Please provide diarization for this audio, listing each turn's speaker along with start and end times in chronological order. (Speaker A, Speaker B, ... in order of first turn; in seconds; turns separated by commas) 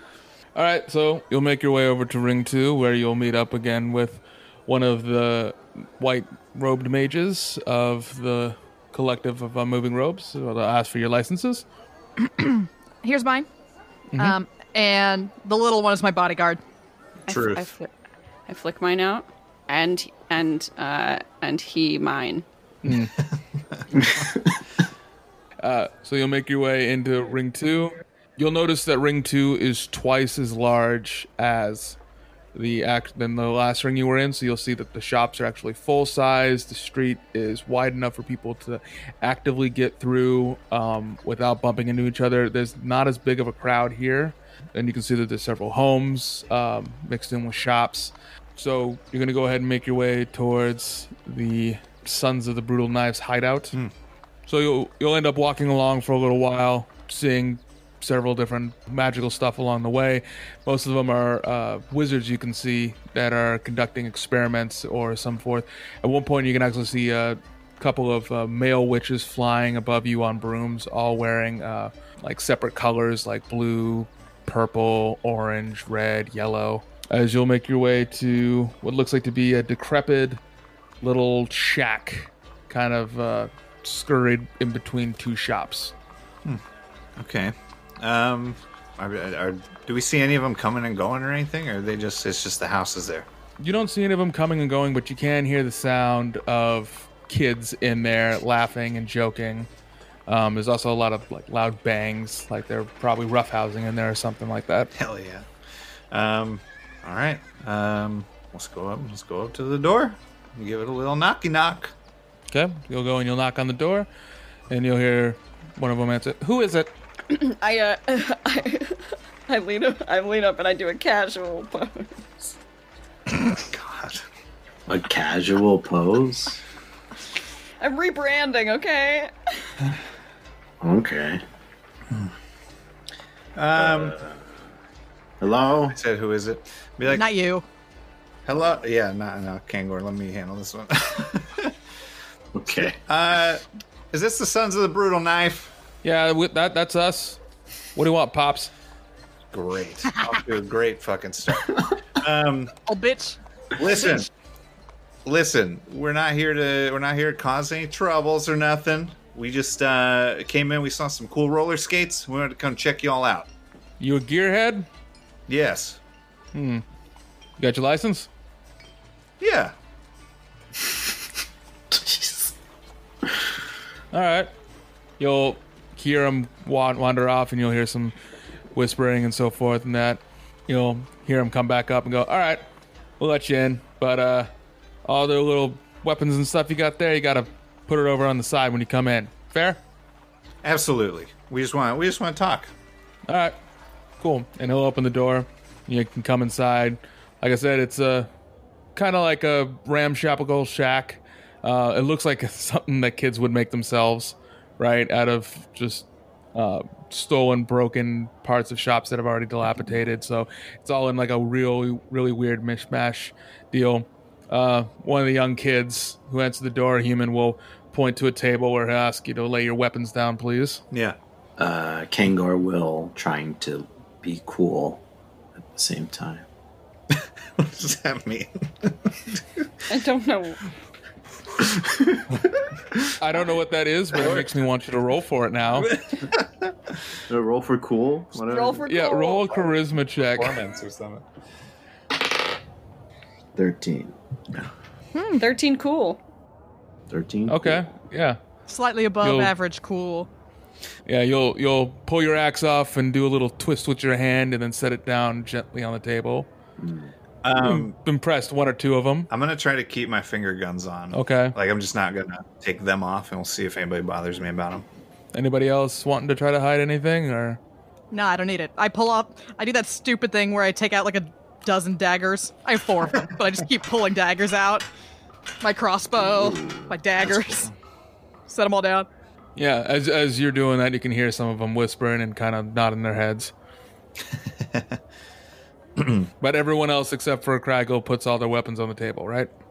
Speaker A: 0.6-11.6, Speaker B: 12.2-13.5, Speaker A: 14.1-14.4, Speaker B: 14.2-16.6, Speaker C: 17.3-17.7, Speaker D: 17.3-17.9, Speaker D: 18.5-22.4, Speaker A: 22.8-23.1, Speaker E: 24.0-24.6, Speaker A: 25.6-32.0, Speaker A: 32.5-53.8, Speaker A: 54.5-80.4, Speaker A: 81.0-85.9, Speaker C: 87.2-93.3, Speaker A: 93.6-99.7, Speaker A: 100.3-104.9, Speaker C: 105.0-105.5, Speaker C: 106.1-111.9, Speaker A: 112.5-114.1, Speaker A: 114.7-116.9, Speaker D: 117.3-122.5, Speaker C: 123.5-124.2, Speaker E: 124.9-126.6, Speaker D: 127.8-129.3, Speaker E: 130.8-131.4, Speaker C: 133.6-134.2, Speaker E: 133.8-134.4, Speaker E: 135.4-136.0, Speaker C: 135.9-137.2, Speaker B: 137.1-137.7, Speaker C: 138.5-141.7, Speaker E: 142.6-143.0, Speaker C: 142.9-145.7, Speaker A: 146.0-147.4, Speaker A: 147.9-148.7, Speaker C: 149.5-151.7, Speaker C: 152.2-152.7, Speaker B: 152.9-154.2, Speaker C: 153.8-154.3, Speaker C: 155.2-163.5, Speaker A: 164.0-164.9, Speaker C: 165.5-166.0, Speaker A: 166.5-166.8, Speaker A: 167.6-168.3, Speaker C: 169.4-169.7, Speaker E: 171.9-172.5, Speaker A: 174.1-174.5, Speaker A: 175.2-178.1, Speaker A: 178.7-182.6, Speaker A: 183.2-184.5, Speaker A: 185.1-189.8, Speaker C: 190.6-192.7, Speaker A: 193.3-193.6, Speaker A: 194.2-198.3, Speaker A: 198.9-220.8, Speaker E: 221.6-225.0, Speaker E: 225.6-226.5, Speaker C: 227.6-228.9, Speaker D: 229.9-230.6, Speaker E: 231.8-232.3, Speaker A: 233.2-235.9, Speaker C: 234.1-234.5, Speaker C: 235.8-236.4, Speaker E: 237.3-238.8, Speaker D: 238.5-239.5, Speaker A: 238.9-240.6, Speaker C: 240.3-241.2, Speaker E: 243.6-244.7, Speaker B: 245.1-245.5, Speaker D: 245.4-246.2, Speaker E: 247.1-247.9, Speaker A: 247.5-248.4, Speaker B: 248.7-250.3, Speaker A: 249.2-249.5, Speaker A: 251.1-256.5, Speaker E: 256.8-257.1, Speaker C: 257.4-257.9, Speaker A: 257.6-259.3, Speaker C: 259.3-264.9, Speaker A: 261.1-261.6, Speaker A: 265.3-267.6, Speaker B: 268.1-274.9, Speaker B: 275.6-277.7, Speaker E: 276.2-277.0, Speaker B: 278.5-279.1, Speaker A: 279.6-283.5, Speaker A: 286.4-289.5